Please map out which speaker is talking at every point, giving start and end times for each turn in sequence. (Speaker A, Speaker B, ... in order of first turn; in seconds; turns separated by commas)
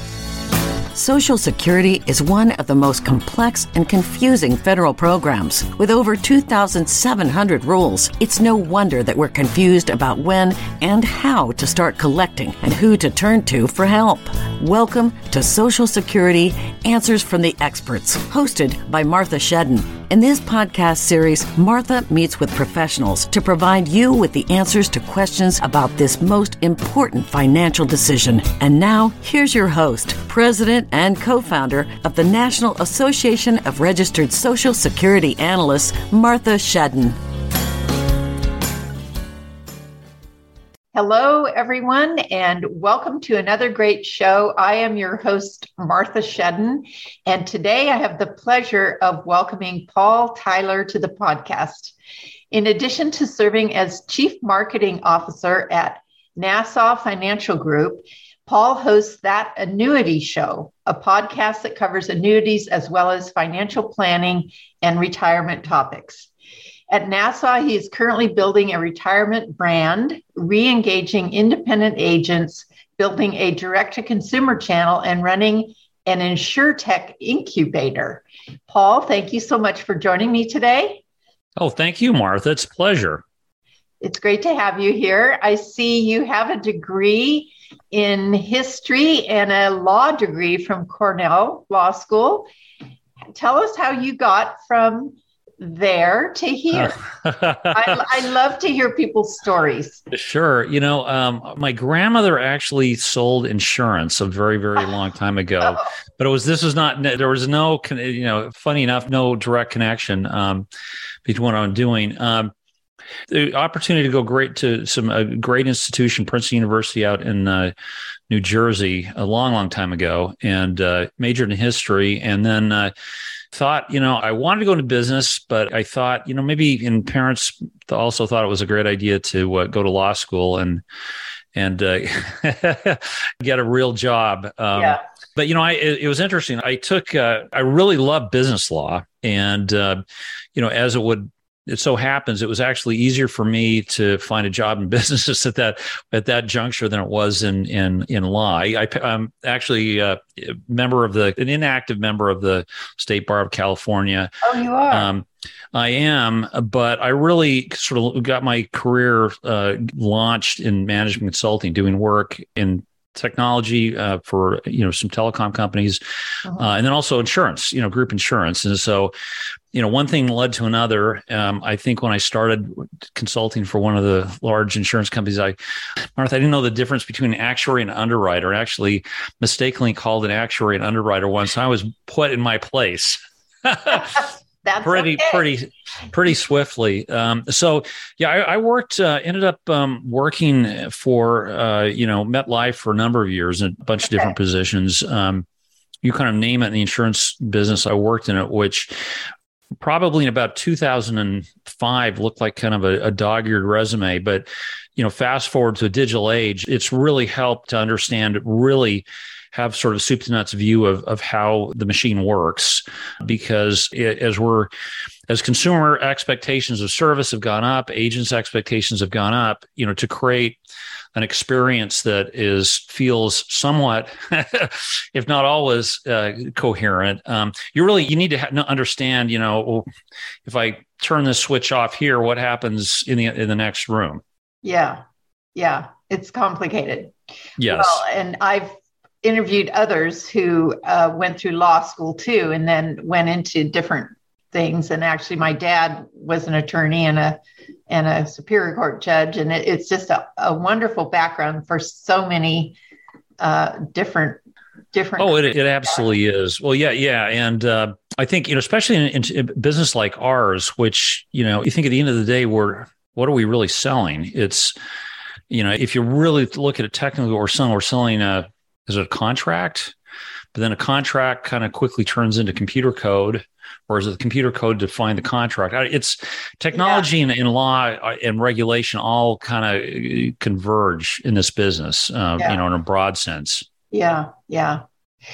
Speaker A: 0.9-37.1, Speaker B: 40.9-51.9, Speaker B: 52.5-66.3, Speaker B: 66.9-81.0, Speaker C: 81.6-83.2, Speaker B: 84.0-92.5, Speaker B: 93.3-97.0, Speaker C: 96.8-98.0, Speaker B: 97.7-100.0, Speaker C: 100.1-110.7, Speaker C: 111.2-112.5, Speaker C: 113.3-117.7, Speaker C: 118.3-122.9, Speaker C: 123.5-130.8, Speaker C: 131.5-140.0, Speaker B: 134.7-135.0, Speaker C: 140.5-154.3, Speaker B: 154.4-155.1, Speaker C: 154.9-166.0, Speaker C: 166.5-169.1, Speaker C: 169.7-175.6, Speaker C: 176.2-184.3, Speaker B: 184.6-185.4, Speaker C: 184.8-195.4, Speaker C: 196.0-198.9, Speaker C: 199.8-214.7, Speaker C: 215.3-220.6, Speaker C: 221.1-229.9, Speaker C: 230.4-234.2, Speaker B: 234.6-235.0, Speaker B: 235.5-237.1, Speaker C: 237.6-238.0, Speaker B: 237.7-252.8, Speaker B: 253.4-254.4, Speaker B: 254.9-256.0, Speaker C: 255.2-264.8, Speaker C: 265.5-269.9, Speaker C: 270.5-283.7, Speaker B: 276.7-277.1, Speaker B: 283.9-284.8